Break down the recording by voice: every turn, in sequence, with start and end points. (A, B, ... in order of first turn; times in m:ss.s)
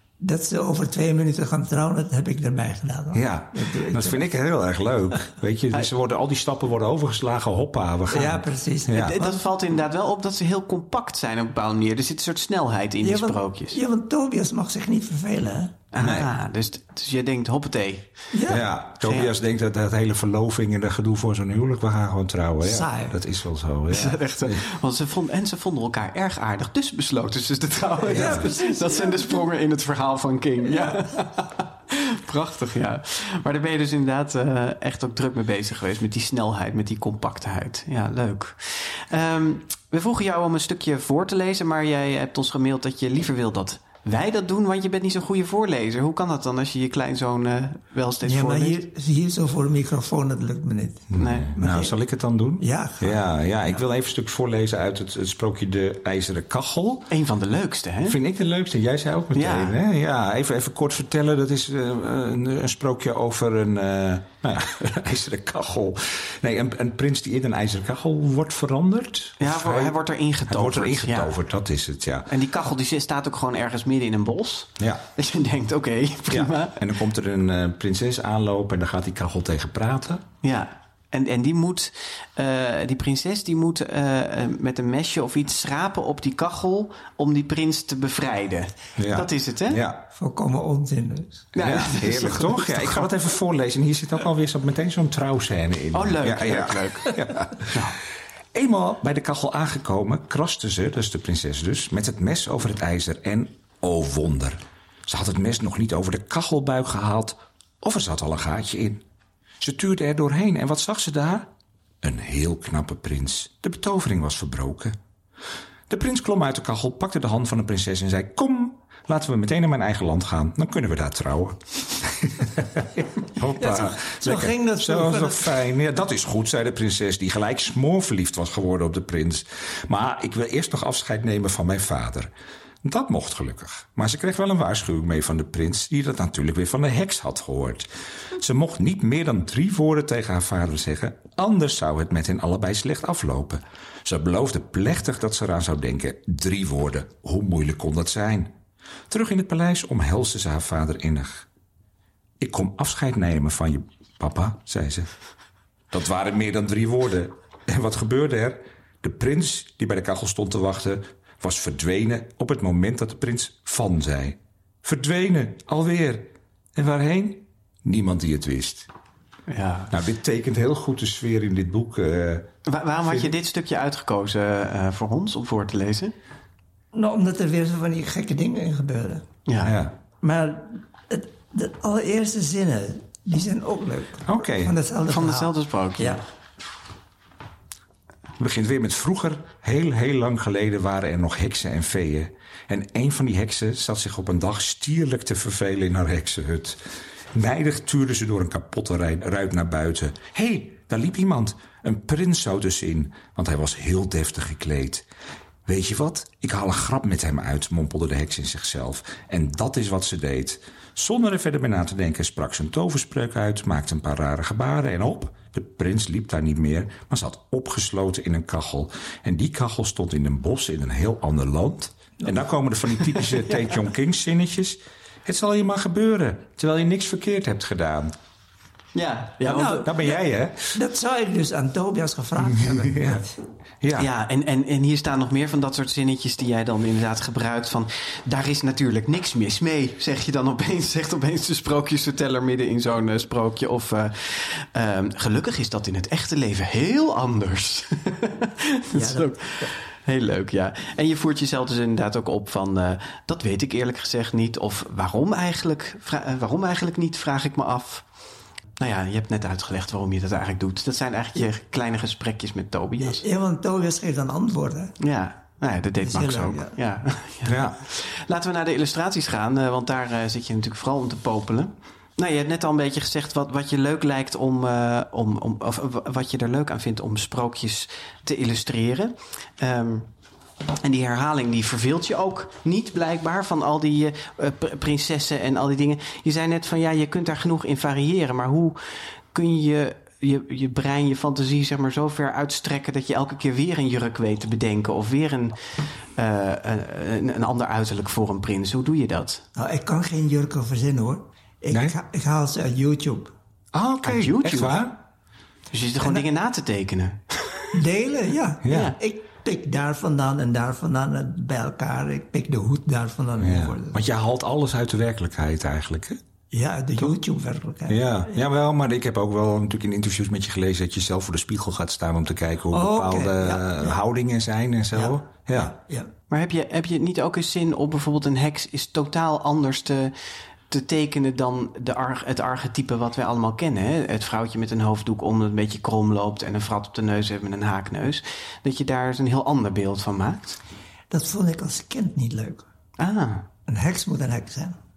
0:00.2-0:04.3 A
0:03.1-0:09.2 B
0:08.1-0:09.4 A
0:08.9-0:13.8 C
0:13.0-0:15.8 A
0:15.9-0:18.1 C
0:16.0-0:16.3 B
0:18.3-0:18.6 A
0:18.5-0:24.6 B
0:19.0-0:19.3 C
0:22.6-0:23.2 A
0:23.9-0:48.8 C
0:28.0-0:29.4 A
0:28.1-0:28.4 B
0:48.2-0:51.9 A
0:51.1-0:57.1 B
0:51.2-0:51.5 C
0:52.6-0:53.2 A
0:57.1-0:58.2 C
0:58.1-1:12.3 B
0:59.3-0:59.7 C
1:09.4-1:11.3 C
1:12.3-1:16.9 C
1:16.3-1:20.2 B
1:20.4-1:29.8 C
1:29.0-1:30.0 B
1:30.1-1:31.5 A
1:31.5-1:33.1 C
1:31.6-1:37.9 B
1:35.9-1:38.0 C
1:38.5-1:49.0 B
1:49.6-1:51.5 B
1:52.0-1:55.0 B
1:55.9-2:12.3 B
2:03.6-2:05.6 A
2:12.8-2:28.5 B
2:29.1-2:31.4 B
2:32.4-2:35.1 B
2:35.9-2:48.9 B
2:49.5-2:49.9 C
2:49.9-2:52.5 B
2:52.7-2:56.1 C
2:53.0-2:53.3 B
2:56.9-2:59.3 A
2:59.5-2:59.7 C
2:59.6-3:00.0 B
3:00.2-3:06.2 A
3:04.3-3:04.7 B
3:05.1-3:06.2 C
3:08.4-3:16.8 B
3:17.3-3:25.0 B
3:25.6-3:48.1 B
3:43.1-3:43.7 C
3:48.9-3:49.9 C
3:49.4-3:50.2 A
3:49.8-3:50.8 B
3:50.7-3:53.4 A
3:52.5-3:53.2 B
3:53.8-3:54.1 B
3:54.0-4:18.1 C
4:08.9-4:09.7 A
4:18.8-4:23.2 C
4:23.0-4:24.9 A
4:25.0-4:40.1 C
4:26.0-4:26.8 A
4:27.4-4:27.8 B
4:40.8-4:59.4 C
4:59.5-5:03.3 A
5:03.7-5:05.0 B
5:04.0-5:04.8 C
5:05.7-5:07.8 C
5:07.7-5:14.0 A
5:08.6-5:08.9 B
5:08.7-5:09.0 C
5:13.4-5:16.2 B
5:16.5-5:18.4 A
5:17.9-5:25.7 B
5:22.7-5:24.0 A
5:24.9-5:26.1 A
5:26.3-5:40.6 C
5:41.1-5:42.7 A
5:43.0-5:43.5 C
5:43.7-5:44.8 A